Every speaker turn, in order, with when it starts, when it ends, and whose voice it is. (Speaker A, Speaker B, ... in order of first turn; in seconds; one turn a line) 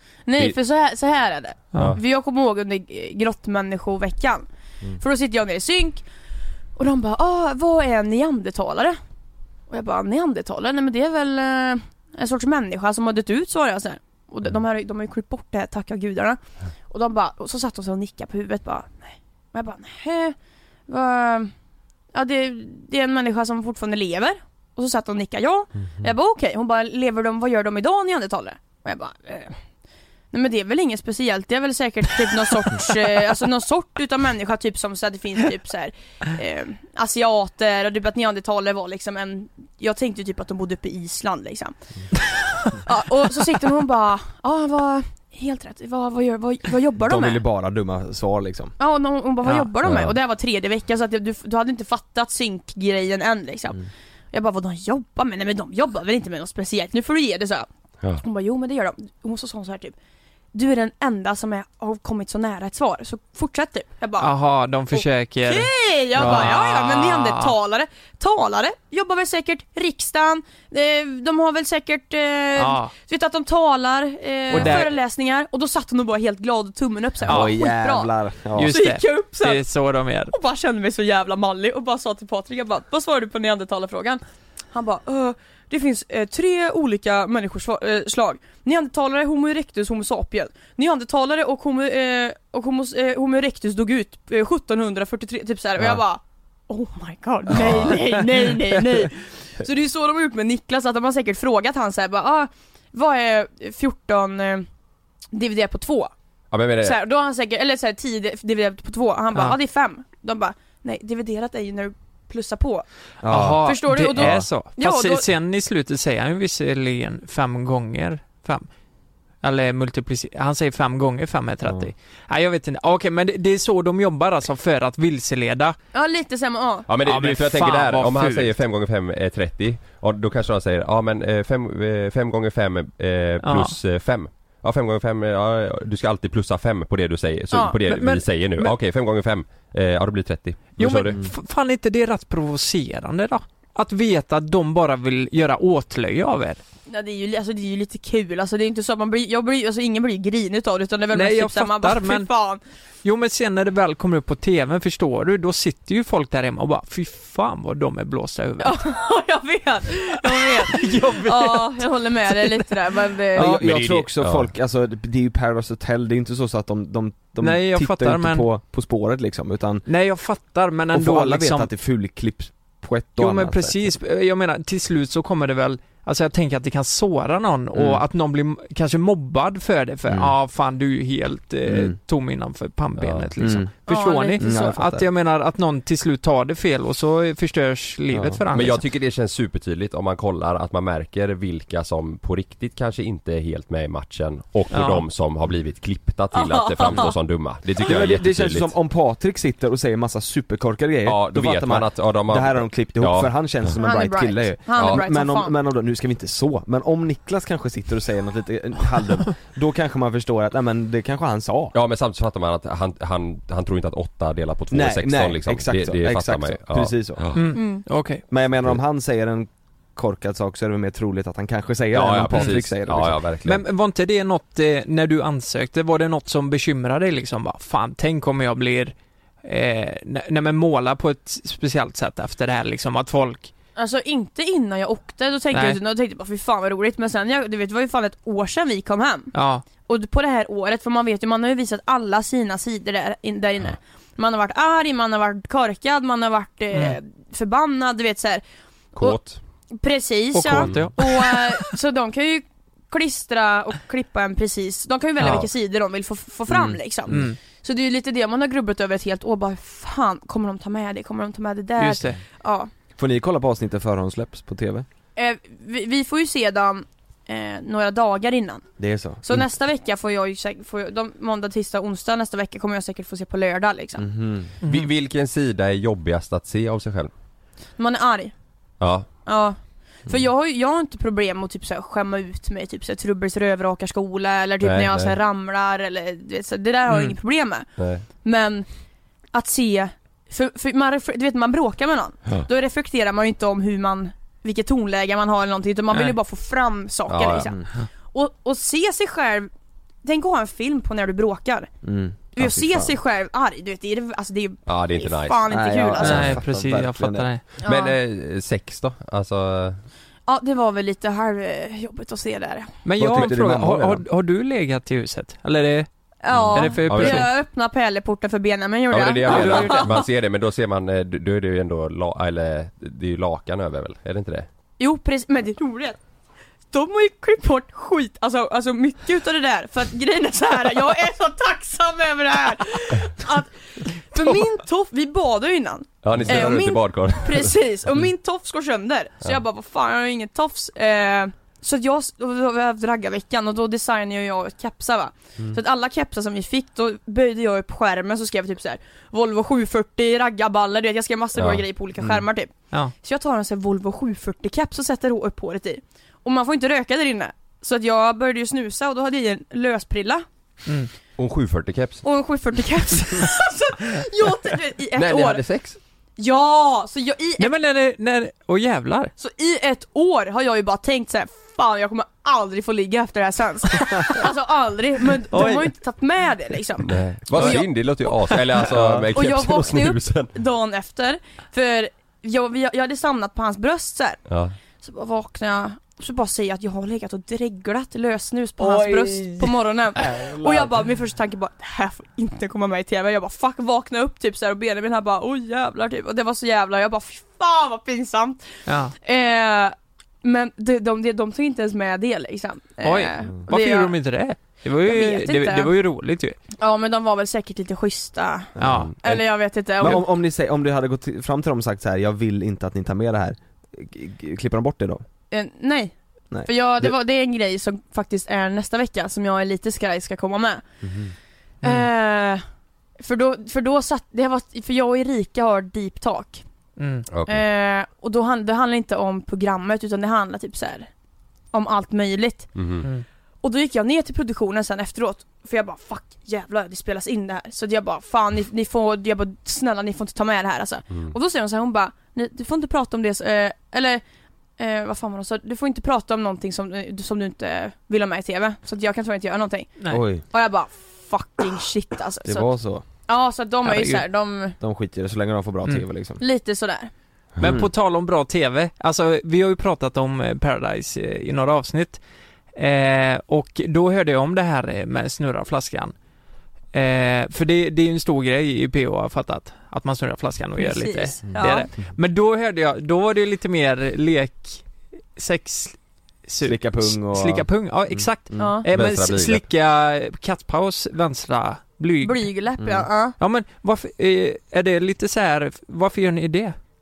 Speaker A: 0.3-4.4
Speaker A: 5.0-6.0
Speaker A: 6.8-9.0
Speaker A: 9.7-16.4
Speaker A: 16.9-20.3
Speaker A: 20.9-21.5
Speaker A: 22.1-29.6
Speaker A: 30.3-41.7
Speaker A: 42.8-47.4
Speaker B: 47.0-48.7
Speaker A: 48.8-53.8
Speaker A: 54.3-57.6
Speaker A: 58.2-59.9
Speaker A: 60.5-64.3
Speaker C: 64.2-67.5
Speaker A: 64.9-78.1
Speaker C: 72.6-72.9
Speaker C: 74.5-74.9
Speaker C: 77.2-77.5
Speaker B: 77.2-78.7
Speaker C: 78.5-80.3
Speaker A: 78.6-79.6
Speaker A: 80.3-84.2
Speaker A: 84.7-104.7
Speaker B: 97.6-97.9
Speaker A: 105.3-106.1
Speaker D: 106.5-107.0
Speaker A: 106.8-112.8
Speaker B: 113.2-114.4
Speaker C: 113.3-118.7
Speaker A: 113.6-115.2
Speaker C: 119.4-125.8
Speaker B: 121.6-121.9
Speaker A: 125.9-126.9
Speaker D: 126.9-141.2
Speaker C: 127.0-128.5
Speaker C: 133.4-133.8
Speaker A: 137.5-137.8
Speaker C: 137.8-138.7
Speaker C: 140.8-146.6
Speaker A: 146.9-152.6
Speaker C: 151.1-152.3
Speaker C: 153.0-158.8
Speaker A: 158.6-163.7
Speaker C: 160.4-161.7
Speaker B: 163.3-169.8
Speaker D: 163.4-164.5
Speaker C: 167.4-168.4
Speaker C: 169.8-171.7
Speaker B: 170.9-173.9
Speaker C: 173.2-188.8
Speaker B: 177.7-178.0
Speaker B: 180.1-180.3
Speaker B: 181.7-182.0
Speaker D: 183.0-183.3
Speaker B: 183.4-183.7
Speaker A: 183.9-184.4
Speaker B: 184.4-185.1
Speaker B: 188.1-188.4
Speaker D: 188.5-198.7
Speaker C: 194.7-195.0
Speaker A: 196.4-197.0
Speaker B: 197.8-211.7
Speaker D: 201.0-203.8
Speaker A: 203.8-205.5
Speaker D: 204.8-205.0
Speaker D: 211.7-217.5
Speaker B: 214.7-217.3
Speaker C: 217.3-218.2
Speaker A: 217.5-217.8
Speaker B: 218.3-223.2
Speaker D: 221.9-223.6
Speaker C: 223.4-233.5
Speaker A: 233.8-239.3
Speaker C: 235.5-235.8
Speaker C: 239.3-239.6
Speaker A: 239.8-248.4
Speaker D: 248.9-249.4
Speaker A: 249.7-262.7
Speaker C: 250.3-251.7
Speaker D: 250.6-250.9
Speaker D: 255.2-255.5
Speaker B: 256.5-257.3
Speaker C: 257.1-257.4
Speaker C: 261.8-262.2
Speaker B: 262.9-264.9
Speaker A: 265.1-268.7
Speaker B: 268.8-269.4
Speaker A: 269.2-274.1
Speaker B: 274.0-274.5
Speaker D: 274.6-277.1
Speaker A: 277.8-278.3
Speaker D: 278.8-279.1
Speaker A: 279.2-287.6
Speaker D: 284.6-285.2
Speaker C: 286.9-287.1
Speaker D: 287.8-288.0
Speaker A: 288.2-288.7
Speaker A: 289.3-299.5
Speaker D: 297.1-297.5
Speaker A: 300.0-301.7
Speaker B: 301.8-302.9
Speaker A: 302.4-306.3
Speaker D: 304.7-306.4
Speaker B: 305.5-307.3
Speaker C: 306.0-307.4
Speaker A: 307.6-307.9
Speaker D: 307.6-309.8
Speaker A: 310.3-312.8
Speaker C: 312.8-315.9
Speaker B: 313.0-314.0
Speaker A: 316.2-320.1
Speaker B: 316.3-316.6
Speaker C: 316.5-317.3
Speaker D: 316.8-317.3
Speaker D: 318.9-324.5
Speaker C: 319.3-319.9
Speaker A: 324.8-326.0
Speaker A: 326.7-333.5
Speaker A: 334.1-352.5
Speaker D: 336.0-337.6
Speaker D: 351.3-351.6
Speaker A: 353.0-360.2
Speaker D: 361.2-362.0
Speaker A: 362.0-365.4
Speaker D: 364.9-365.8
Speaker A: 366.2-367.5
Speaker C: 367.4-369.1
Speaker A: 369.2-377.6
Speaker C: 375.3-375.7
Speaker D: 376.8-380.3
Speaker B: 378.7-379.1
Speaker A: 379.1-384.2
Speaker D: 384.3-384.5
Speaker A: 384.8-398.4
Speaker B: 388.6-390.7
Speaker C: 398.7-398.9
Speaker A: 399.0-403.9
Speaker C: 402.8-406.4
Speaker A: 404.8-405.7
Speaker A: 406.6-410.1
Speaker B: 408.6-409.2
Speaker C: 408.6-408.9
Speaker D: 408.7-408.9
Speaker B: 409.8-415.0
Speaker A: 415.3-415.9
Speaker B: 416.3-416.9
Speaker A: 416.4-420.6
Speaker B: 420.8-421.1
Speaker C: 421.6-421.9
Speaker A: 421.6-422.4
Speaker A: 423.0-426.4
Speaker C: 426.8-427.1
Speaker D: 427.1-427.4
Speaker A: 427.3-430.9
Speaker A: 431.5-432.5
Speaker D: 432.6-432.9
Speaker A: 433.4-444.0
Speaker A: 444.6-452.5
Speaker B: 449.9-450.2
Speaker B: 452.2-452.8
Speaker A: 453.1-454.5
Speaker C: 453.6-454.0
Speaker B: 454.6-456.2
Speaker A: 456.2-456.9
Speaker B: 457.4-457.7
Speaker C: 457.4-462.0
Speaker C: 462.5-465.9
Speaker C: 466.7-474.6
Speaker A: 470.6-471.7
Speaker C: 475.1-482.3
Speaker B: 476.4-478.5
Speaker A: 478.4-478.6
Speaker D: 478.7-479.4
Speaker A: 482.0-483.1
Speaker B: 482.6-482.9
Speaker C: 483.2-486.6